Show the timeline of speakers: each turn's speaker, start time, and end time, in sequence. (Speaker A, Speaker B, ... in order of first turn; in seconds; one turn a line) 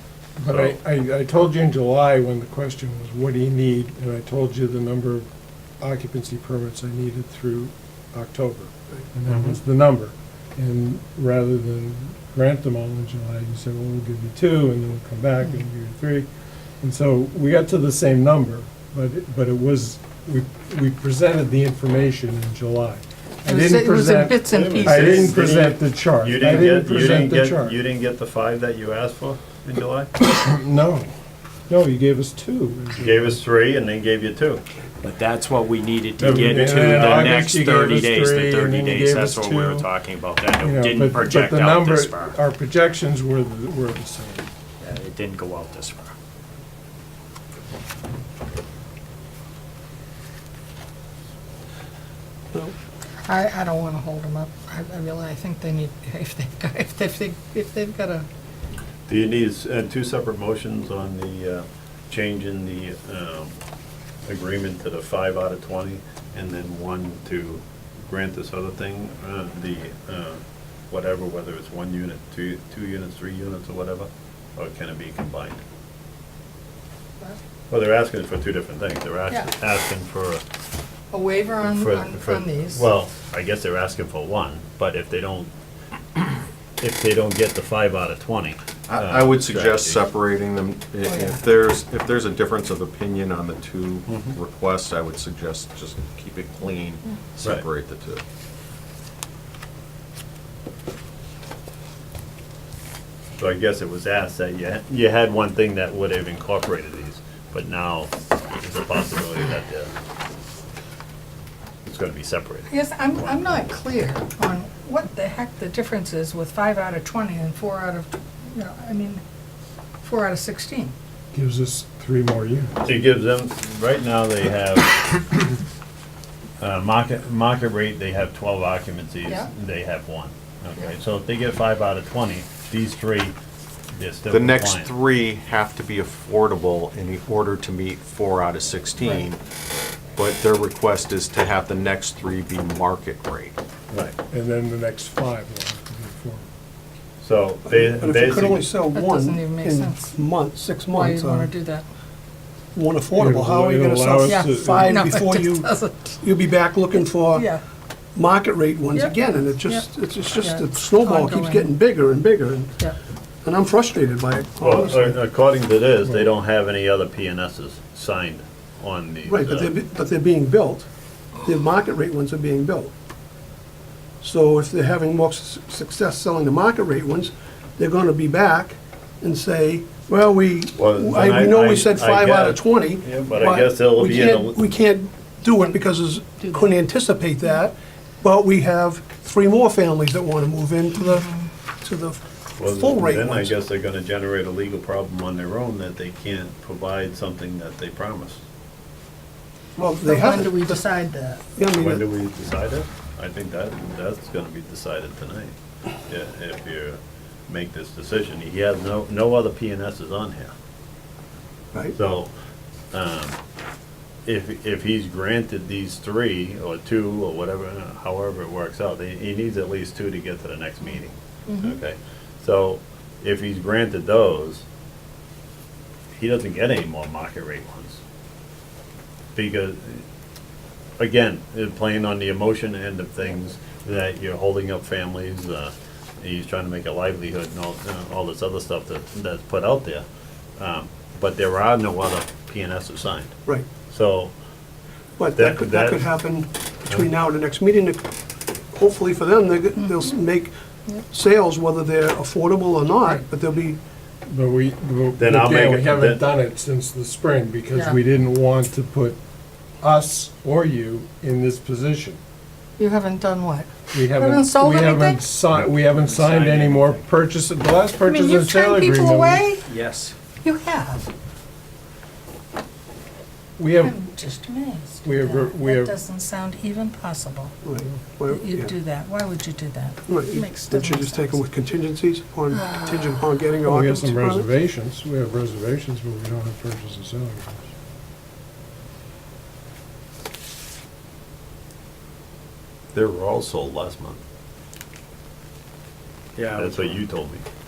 Speaker A: 0.4-5.2
Speaker B: 0.5-0.8
Speaker A: 5.8-16.3
Speaker B: 9.3-9.5
Speaker A: 16.8-27.8
Speaker C: 23.4-25.3
Speaker B: 24.5-30.1
Speaker A: 30.3-31.1
Speaker A: 31.7-33.4
Speaker B: 33.0-34.6
Speaker D: 35.0-42.4
Speaker A: 36.2-39.9
Speaker B: 36.2-36.6
Speaker A: 40.6-44.5
Speaker D: 44.8-46.1
Speaker C: 53.2-58.2
Speaker B: 59.1-63.5
Speaker B: 64.2-75.6
Speaker B: 77.7-80.4
Speaker C: 81.1-82.8
Speaker B: 81.7-85.5
Speaker B: 86.2-90.0
Speaker E: 88.9-98.2
Speaker C: 91.0-91.4
Speaker B: 94.1-94.3
Speaker B: 103.4-109.9
Speaker B: 111.8-113.6
Speaker C: 112.7-119.2
Speaker C: 120.0-120.9
Speaker A: 121.3-122.7
Speaker B: 122.8-125.2
Speaker B: 126.6-133.3
Speaker B: 134.0-134.9
Speaker E: 134.3-139.4
Speaker E: 140.2-143.6
Speaker B: 143.9-144.2
Speaker A: 144.3-146.5
Speaker B: 147.2-148.7
Speaker F: 147.7-151.5
Speaker C: 148.9-150.2
Speaker C: 150.8-151.8
Speaker F: 152.7-157.5
Speaker A: 153.1-155.0
Speaker C: 154.2-156.2
Speaker C: 157.3-157.6
Speaker F: 158.1-162.7
Speaker C: 158.9-161.7
Speaker F: 163.4-165.2
Speaker B: 164.6-169.7
Speaker F: 169.2-170.8
Speaker F: 171.4-172.9
Speaker F: 174.2-191.3
Speaker B: 180.7-184.7
Speaker C: 191.0-191.5
Speaker F: 191.8-193.5
Speaker B: 192.6-198.4
Speaker F: 199.8-200.8
Speaker C: 200.0-201.4
Speaker F: 201.5-202.1
Speaker B: 201.7-205.5
Speaker B: 206.1-210.5
Speaker B: 211.9-212.3
Speaker B: 212.9-213.4
Speaker B: 214.2-224.6
Speaker C: 221.5-221.8
Speaker B: 226.2-228.0
Speaker B: 229.3-230.0
Speaker B: 231.0-240.0
Speaker B: 240.6-243.3
Speaker B: 243.9-244.3
Speaker F: 245.2-248.1
Speaker B: 245.3-246.1
Speaker F: 248.7-250.5
Speaker C: 249.8-250.1
Speaker F: 251.0-253.8
Speaker A: 254.3-259.2
Speaker B: 255.2-256.2
Speaker C: 257.7-258.0
Speaker A: 259.8-262.2
Speaker C: 262.8-265.2
Speaker A: 263.9-269.5
Speaker D: 265.7-267.0
Speaker C: 268.0-269.6
Speaker D: 269.6-270.1
Speaker C: 270.4-271.1
Speaker A: 273.6-274.0
Speaker C: 273.8-277.5
Speaker A: 275.0-275.9
Speaker F: 277.6-278.7
Speaker C: 278.3-281.4
Speaker F: 280.1-284.5
Speaker C: 282.5-283.2
Speaker A: 283.6-287.7
Speaker B: 292.9-294.2
Speaker D: 296.4-297.0
Speaker B: 296.5-297.4